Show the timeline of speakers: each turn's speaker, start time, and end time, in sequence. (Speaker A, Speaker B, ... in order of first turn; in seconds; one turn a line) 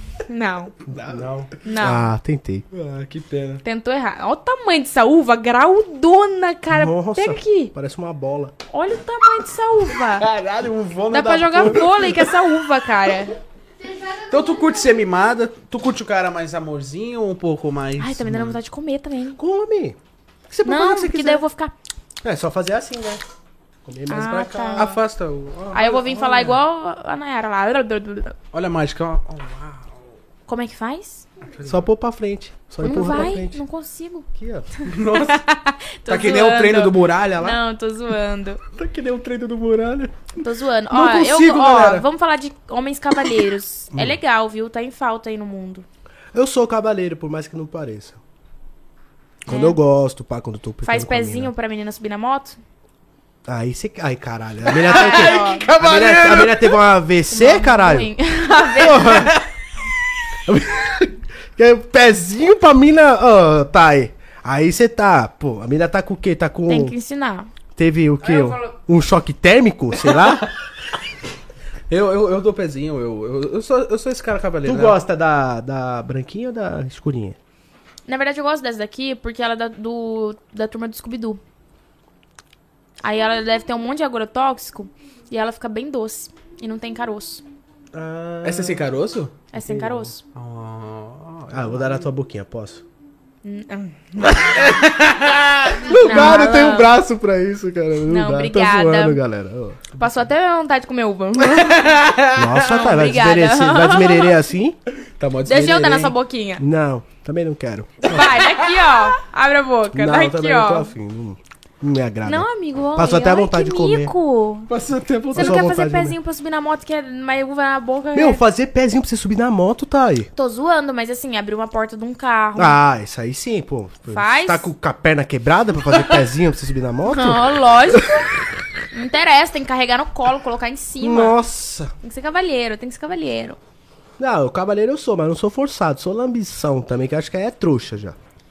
Speaker A: 0.3-0.7
Speaker B: 0.9-1.5
Speaker A: 1.6-2.1
Speaker C: 1.7-2.7
Speaker B: 2.7-3.6
Speaker A: 3.6-7.7
Speaker C: 6.7-8.5
Speaker A: 8.7-10.3
Speaker B: 10.1-12.3
Speaker A: 11.1-13.4
Speaker B: 13.8-18.6
Speaker A: 18.0-19.4
Speaker C: 19.4-20.0
Speaker C: 20.5-21.4
Speaker A: 20.6-21.7
Speaker C: 22.2-23.2
Speaker C: 23.9-25.0
Speaker A: 24.1-24.9
Speaker B: 24.7-26.6
Speaker A: 25.7-28.4
Speaker B: 28.5-30.1
Speaker A: 30.5-31.3
Speaker B: 31.5-31.8
Speaker C: 31.6-33.6
Speaker A: 32.8-38.6
Speaker C: 34.4-34.7
Speaker B: 34.9-35.4
Speaker B: 36.1-37.6
Speaker B: 38.8-40.1
Speaker A: 40.4-45.9
Speaker B: 40.9-42.0
Speaker C: 43.9-44.2
Speaker C: 46.3-48.2
Speaker C: 49.5-51.5
Speaker A: 49.5-49.8
Speaker A: 50.8-52.6
Speaker C: 53.5-58.1
Speaker B: 54.7-56.8
Speaker A: 54.9-55.7
Speaker A: 57.3-59.4
Speaker C: 58.8-59.4
Speaker B: 59.0-59.5
Speaker C: 60.5-67.0
Speaker A: 66.7-67.5
Speaker C: 67.8-70.5
Speaker A: 68.3-68.5
Speaker B: 71.9-75.0
Speaker C: 74.7-77.4
Speaker A: 78.1-81.4
Speaker A: 83.0-87.4
Speaker C: 87.9-88.9
Speaker B: 88.4-89.4
Speaker A: 89.5-90.2
Speaker C: 89.6-90.1
Speaker B: 90.3-92.1
Speaker C: 91.5-92.8
Speaker A: 93.4-94.7
Speaker B: 94.4-96.5
Speaker C: 95.8-100.0
Speaker A: 95.9-97.0
Speaker A: 98.1-99.2
Speaker A: 100.0-102.0
Speaker B: 101.4-102.8
Speaker C: 102.3-104.8
Speaker A: 102.6-104.4
Speaker B: 105.0-106.1
Speaker A: 105.5-106.6
Speaker C: 106.6-108.3
Speaker A: 108.0-110.9
Speaker B: 108.2-108.8
Speaker C: 109.9-114.1
Speaker A: 112.2-114.7
Speaker B: 114.7-115.7
Speaker C: 115.3-116.2
Speaker A: 115.3-118.4
Speaker C: 118.1-120.3
Speaker A: 120.3-122.8
Speaker C: 122.6-128.3
Speaker A: 124.1-124.7
Speaker A: 127.1-128.4
Speaker A: 128.9-131.4
Speaker C: 131.0-131.9
Speaker A: 132.0-133.6
Speaker C: 134.2-138.2